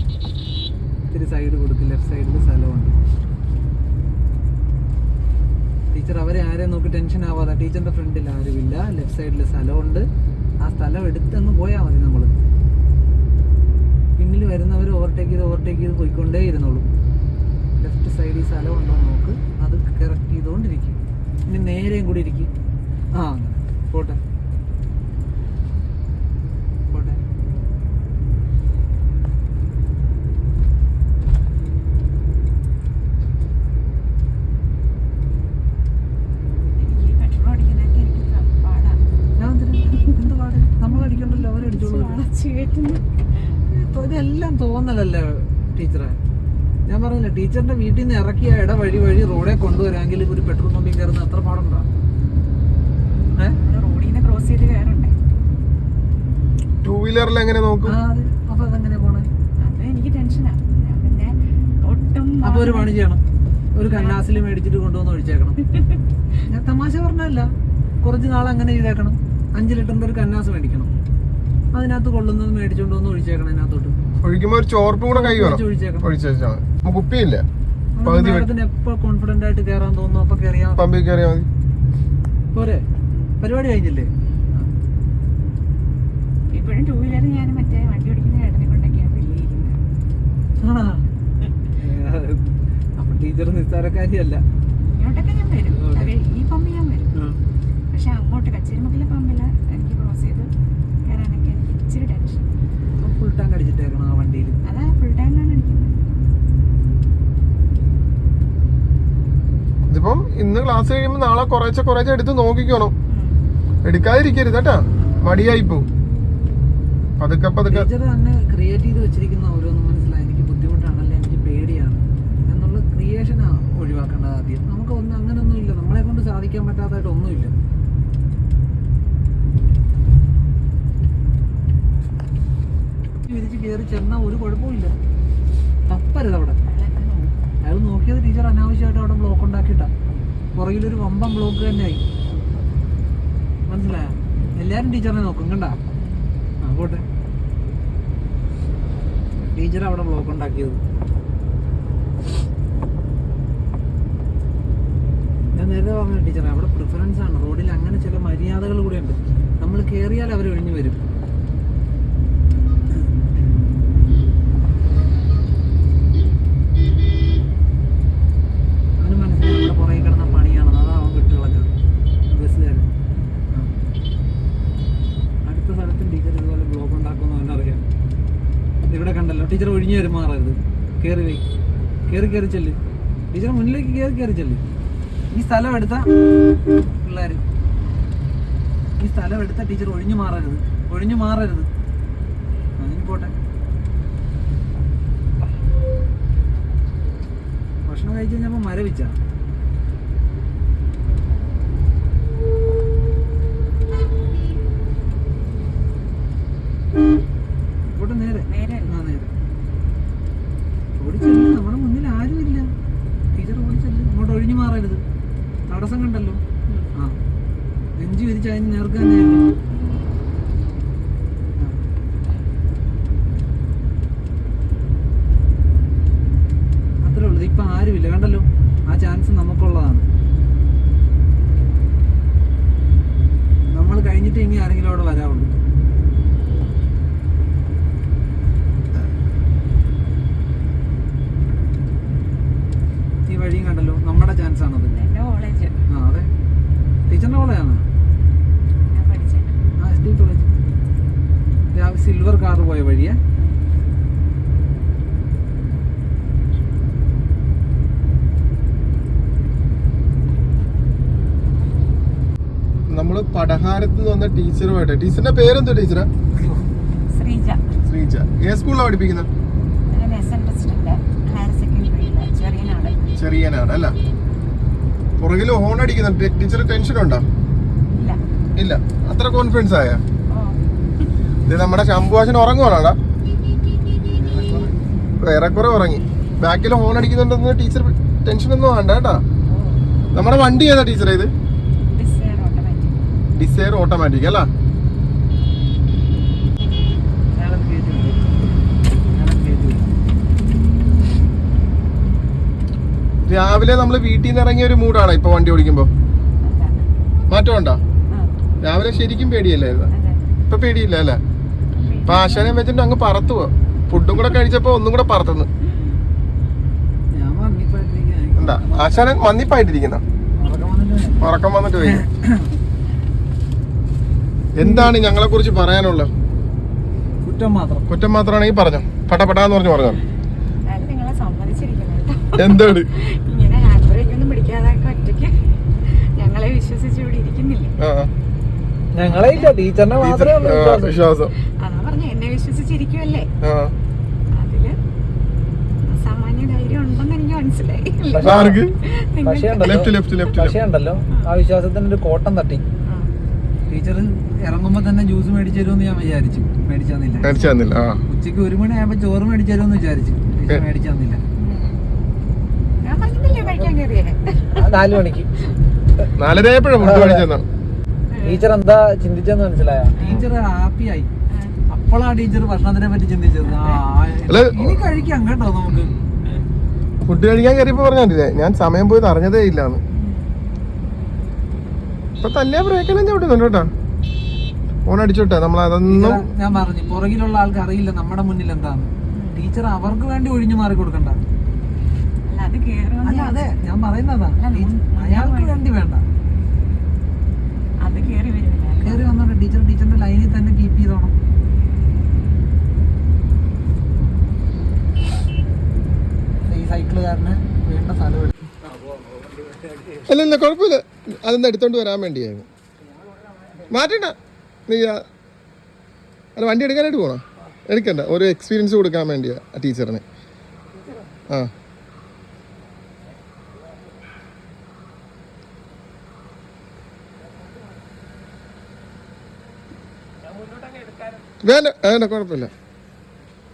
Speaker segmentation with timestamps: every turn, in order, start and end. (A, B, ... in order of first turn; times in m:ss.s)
0:01.1-0:03.0 A
0:05.9-0:10.1 A
0:10.6-0:12.3 A
0:14.2-0:16.9 A
0:17.8-0:22.5 A
0:23.2-0:24.2 A
0:26.9-0:27.2 A
0:36.8-0:39.0 B
0:39.4-0:42.3 A
0:39.9-0:40.3 B
0:40.8-0:43.6 B
0:43.7-0:46.2 A
0:46.9-0:51.9 A
0:53.5-0:55.1 B
0:56.8-0:58.0 C
0:57.8-0:59.3 A
0:59.6-1:03.0 B
1:02.4-1:03.2 A
1:03.8-1:05.6 A
1:03.8-1:04.4 B
1:05.7-1:06.0 B
1:06.5-1:07.5 A
1:08.0-1:10.9 A
1:11.7-1:14.0 A
1:14.2-1:17.4 C
1:15.1-1:16.1 A
1:18.0-1:20.8 A
1:18.0-1:18.5 C
1:20.8-1:21.5 C
1:22.5-1:22.9 A
1:23.4-1:24.7 A
1:26.5-1:29.8 B
1:30.6-1:31.0 A
1:31.8-1:34.4 A
1:34.9-1:37.2 B
1:35.7-1:36.1 A
1:37.9-1:40.5 B
1:41.0-1:42.5 B
1:43.0-1:44.6 A
1:44.6-1:46.0 B
1:49.9-1:52.9 C
1:53.1-1:53.4 B
1:53.8-1:55.9 C
1:57.2-1:57.9 C
1:57.7-2:07.6 A
2:13.3-2:15.0 A
2:15.9-2:16.6 A
2:16.6-2:17.3 B
2:17.6-2:19.9 A
2:20.6-2:22.0 A
2:23.7-2:25.8 A
2:26.0-2:26.3 B
2:26.6-2:27.0 A
2:29.5-2:30.8 A
2:35.5-2:41.0 A
2:49.0-2:51.7 A
2:52.3-2:52.9 A
2:55.5-2:57.8 A
2:58.9-3:01.4 A
3:02.1-3:02.8 A
3:03.3-3:04.6 A
3:05.3-3:06.1 A
3:07.0-3:07.4 A
3:09.0-3:11.7 A
3:12.8-3:13.3 A
3:17.9-3:19.2 A
3:27.9-3:29.3 A
3:28.5-3:29.0 B
3:31.0-3:32.7 A
3:33.4-3:35.0 A
3:35.7-3:36.4 A
3:38.0-3:39.5 A
3:47.0-3:50.0 A
3:53.7-3:55.5 A
4:03.3-4:05.0 A
4:04.9-4:05.8 B
4:05.9-4:06.3 A
4:07.1-4:07.9 A
4:08.9-4:09.6 B
4:09.8-4:10.6 A
4:11.8-4:13.2 A
4:22.9-4:26.1 C
4:27.1-4:27.6 B
4:27.9-4:29.3 C
4:29.9-4:33.0 B
4:33.2-4:33.9 C
4:35.2-4:37.2 C
4:38.0-4:38.2 B
4:38.6-4:40.0 C
4:40.3-4:40.6 B
4:41.5-4:43.0 C
4:44.1-4:44.8 A
4:45.2-4:49.2 C
4:49.5-4:49.8 B
4:50.1-4:51.3 C
4:51.9-4:53.0 B
4:53.4-4:54.5 C
4:57.4-4:58.3 A
4:59.1-4:59.8 A
5:03.3-5:05.9 C
5:06.4-5:06.8 B
5:07.3-5:07.8 C
5:08.6-5:09.9 C
5:09.9-5:10.3 B
5:10.5-5:11.2 C
5:11.7-5:12.7 B
5:12.1-5:15.5 C
5:15.6-5:16.0 B
5:17.2-5:19.1 A
5:18.4-5:20.0 C
5:20.4-5:22.5 A
5:21.2-5:22.0 C
5:24.6-5:26.1 C
5:27.2-5:27.9 A
5:27.9-5:30.0 C
5:30.7-5:37.7 B
5:32.4-5:32.9 C
5:37.8-5:38.1 C
5:39.0-5:41.0 A
5:39.1-5:39.6 B
5:40.0-5:41.3 C
5:41.6-5:43.3 B
5:43.4-5:43.7 C
5:44.3-5:44.8 B
5:45.9-5:49.9 B
5:48.1-5:48.6 A
5:48.2-5:48.7 C
5:49.2-5:52.6 A
5:49.6-5:50.6 C
5:52.8-5:53.1 B
5:53.7-5:57.3 A
5:57.2-5:58.0 C
5:57.3-5:57.6 B
5:58.1-6:01.2 A
6:01.4-6:01.7 B
6:02.8-6:04.9 B
6:04.6-6:05.3 A
6:06.2-6:07.4 C
6:06.8-6:07.3 A
6:08.1-6:08.5 B
6:08.2-6:11.1 A
6:10.0-6:10.2 B
6:11.3-6:11.6 B
6:11.7-6:15.9 A
6:13.4-6:13.8 B
6:14.3-6:14.8 C
6:17.1-6:19.8 C
6:20.0-6:20.3 B
6:22.2-6:23.7 C
6:24.9-6:26.3 C
6:25.8-6:31.2 A
6:29.1-6:29.4 B
6:32.3-6:33.6 B
6:33.0-6:36.0 A
6:34.4-6:35.6 B
6:37.8-6:39.0 B
6:38.8-6:41.1 A
6:46.4-6:48.7 A
6:49.2-6:50.0 A
6:50.1-6:52.5 C
6:53.1-6:53.7 A
6:53.7-6:54.2 C
6:54.7-6:55.0 C
6:56.4-7:00.0 C
7:11.4-7:12.5 C